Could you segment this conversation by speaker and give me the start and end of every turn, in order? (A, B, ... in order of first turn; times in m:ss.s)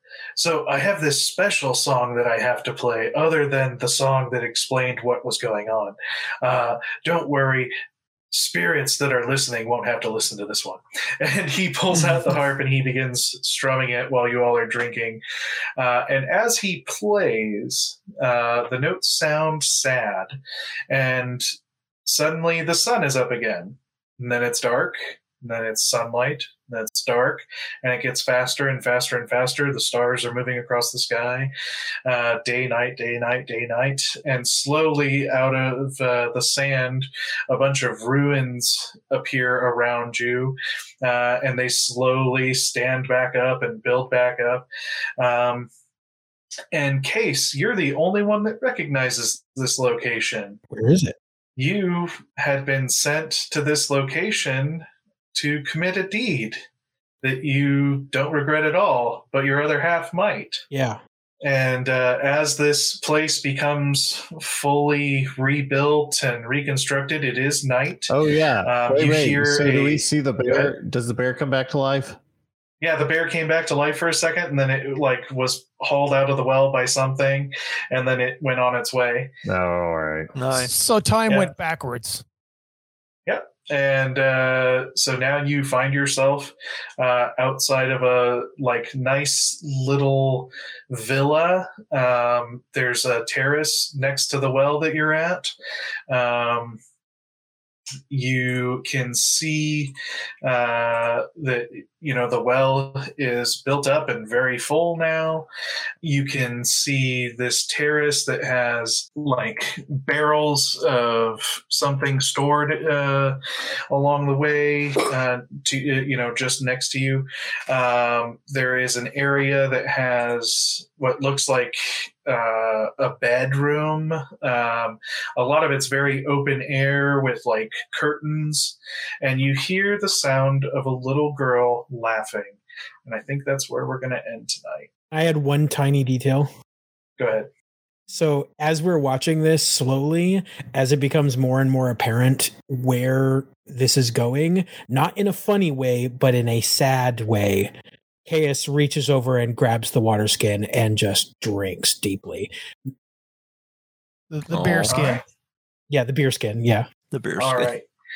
0:00.4-0:07.7 A
0:08.3-0:15.2 A
0:11.9-0:12.4 B
0:15.8-0:20.4 A
0:20.9-0:21.4 A
0:22.0-0:31.5 A
0:32.0-0:44.6 A
0:45.2-0:45.7 A
0:46.7-0:50.6 A
0:50.7-0:51.2 C
0:51.6-0:56.6 A
0:57.2-1:00.6 A
1:00.7-1:01.0 C
1:01.4-1:10.7 A
1:08.1-1:12.2 D
1:12.8-1:19.3 A
1:19.4-1:20.3 D
1:20.4-1:20.7 B
1:20.5-1:22.2 E
1:23.2-1:35.5 A
1:36.1-1:36.8 A
1:38.1-1:45.5 A
1:46.0-1:53.4 A
1:53.9-2:14.9 A
2:15.1-2:16.5 C
2:17.2-2:17.5 A
2:18.1-2:27.7 C
2:28.2-2:32.5 C
2:34.3-2:35.2 E
2:34.5-2:35.1 B
2:35.9-2:36.9 C
2:37.1-2:37.7 B
2:37.4-2:37.8 A